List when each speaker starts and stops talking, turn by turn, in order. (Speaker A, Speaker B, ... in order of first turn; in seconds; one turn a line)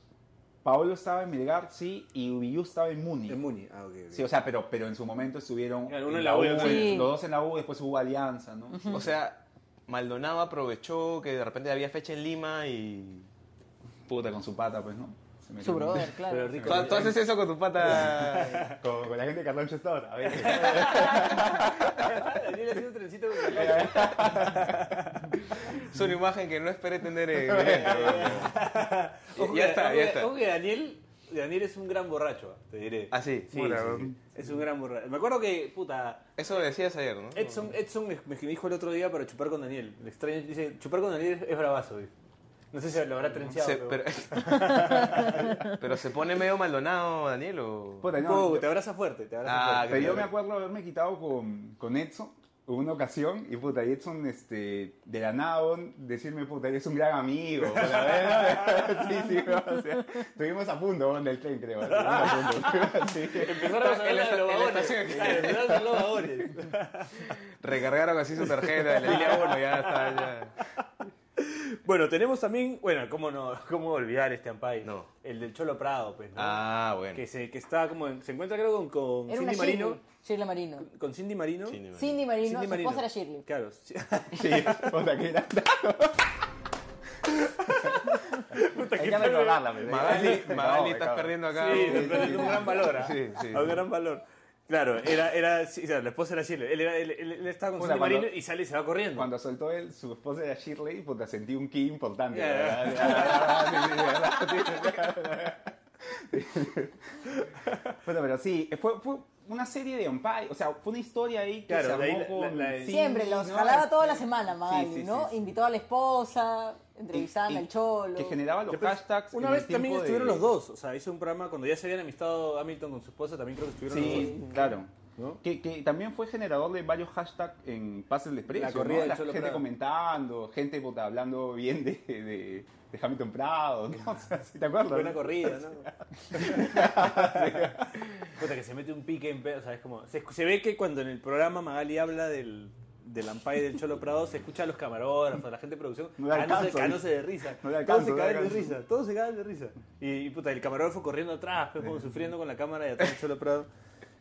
Speaker A: 0.6-3.4
Speaker B: 3.3-4.3
Speaker A: 4.1-9.1
Speaker B: 5.9-7.1
Speaker C: 6.6-7.1
Speaker C: 8.7-9.0
Speaker D: 8.9-13.3
Speaker A: 14.1-17.1
Speaker C: 15.6-16.9
Speaker B: 16.3-17.2
Speaker D: 16.6-18.8
Speaker B: 17.8-18.8
Speaker A: 17.9-22.3
Speaker D: 20.4-21.2
Speaker B: 20.5-25.4
Speaker A: 23.4-24.9
Speaker D: 23.8-24.0
Speaker D: 25.7-28.6
Speaker A: 27.5-28.3
Speaker B: 27.5-36.3
Speaker D: 29.4-30.3
Speaker D: 33.1-34.1
Speaker D: 36.4-37.7
Speaker B: 37.4-42.1
Speaker B: 42.7-45.7
Speaker D: 43.3-48.1
Speaker A: 48.0-48.7
Speaker B: 48.1-50.3
Speaker D: 49.4-50.3
Speaker A: 49.9-63.6
Speaker B: 57.8-59.3
Speaker B: 61.9-67.3
Speaker D: 63.5-66.1
Speaker D: 67.6-70.5
Speaker B: 68.5-80.0
Speaker D: 74.8-75.1
Speaker D: 76.3-77.2
Speaker C: 79.3-80.9
Speaker B: 80.8-81.8
Speaker D: 81.7-82.2
Speaker C: 81.9-83.5
Speaker B: 82.4-85.1
Speaker A: 84.3-86.3
Speaker B: 87.6-90.5
Speaker A: 87.8-93.1
Speaker D: 89.8-93.8
Speaker B: 91.5-99.3
Speaker A: 97.8-98.3
Speaker A: 99.1-107.0
Speaker B: 102.3-104.9
Speaker A: 108.0-115.5
Speaker B: 111.7-113.1
Speaker C: 112.9-118.4
Speaker A: 117.1-120.5
Speaker B: 118.7-125.4
Speaker A: 123.9-138.0
Speaker B: 128.5-129.6
Speaker B: 134.9-137.8
Speaker B: 138.3-153.7
Speaker A: 146.2-148.8